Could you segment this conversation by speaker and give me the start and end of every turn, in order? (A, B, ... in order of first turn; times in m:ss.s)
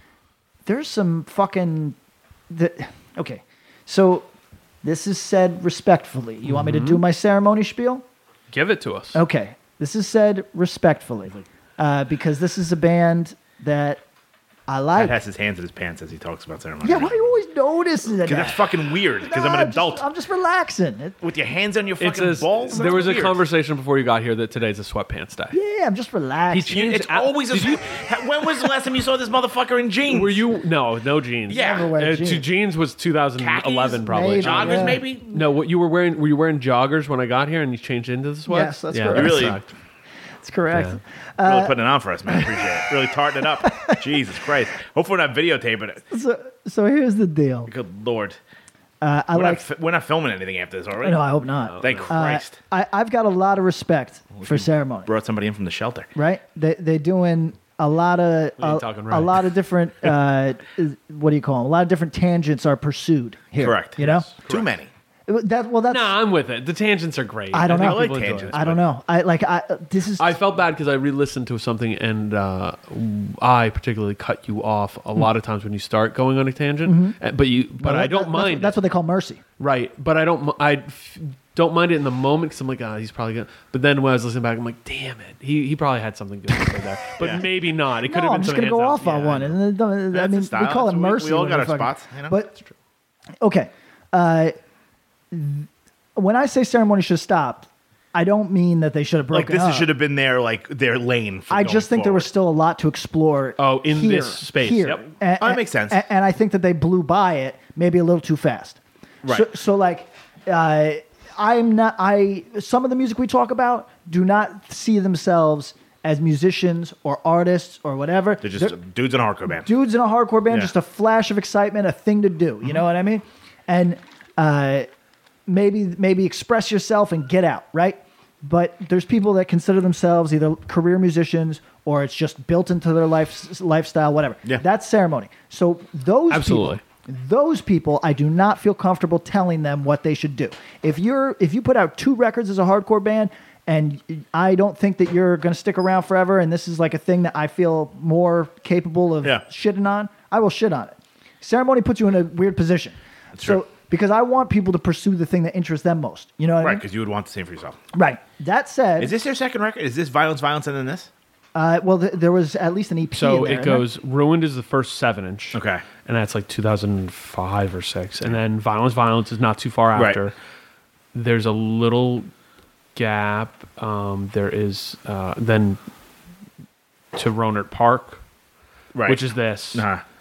0:00.7-0:02.0 A
0:02.5-0:04.3 A
0:04.8-0:08.0 A
0:06.5-0:07.0 B
0:08.5-0:09.2 B
0:09.2-0:14.0 A
0:14.7-0:15.2 A
0:15.0-0:17.4 C
0:16.8-0:21.2 A
0:18.2-0:20.0 C
0:21.2-0:23.4 C
0:22.0-0:25.6 B
0:22.8-0:23.1 A
0:25.5-0:26.7 A
0:26.5-0:27.9 B
0:26.7-0:30.4 C
0:30.1-0:39.7 B
0:31.5-0:31.9 C
0:31.5-0:32.5 A
0:33.4-0:35.4 C
0:34.1-0:35.0 A
0:38.5-0:39.6 A
0:39.1-0:39.6 C
0:40.4-0:42.7 A
0:40.7-0:41.0 B
0:41.4-0:46.0 C
0:43.6-0:44.2 A
0:46.1-0:47.7 A
0:47.7-0:48.4 C
0:49.0-0:49.6 A
0:49.3-0:51.2 C
0:51.0-0:55.1 A
0:51.6-0:52.1 B
0:51.8-0:52.6 C
0:54.4-0:56.1 C
0:56.2-1:04.3 A
0:58.6-0:59.4 B
1:03.6-1:04.9 C
1:04.0-1:04.7 B
1:05.3-1:06.2 A
1:05.9-1:08.6 B
1:07.5-1:10.4 A
1:07.7-1:08.8 C
1:10.2-1:18.8 B
1:16.8-1:17.2 A
1:17.8-1:19.4 A
1:19.6-1:29.6 B
1:28.0-1:32.5 A
1:30.1-1:32.4 C
1:33.4-1:34.6 A
1:35.3-1:39.9 A
1:39.3-1:42.3 C
1:41.5-1:58.8 A
1:43.6-1:45.1 B
1:45.4-1:46.0 C
1:58.4-1:59.7 C
1:59.5-2:04.9 A
2:05.5-2:36.8 A
2:16.3-2:16.8 B
2:33.4-2:33.6 C
2:36.6-2:37.8 C
2:37.9-2:39.1 A
2:39.0-2:41.1 C
2:41.6-2:43.9 A
2:43.1-2:50.3 B
2:45.5-2:45.8 C
2:50.0-2:50.2 C
2:51.1-2:52.3 B
2:53.0-2:55.8 B
2:57.1-2:58.2 B
2:58.9-3:00.0 C
2:59.1-2:59.9 B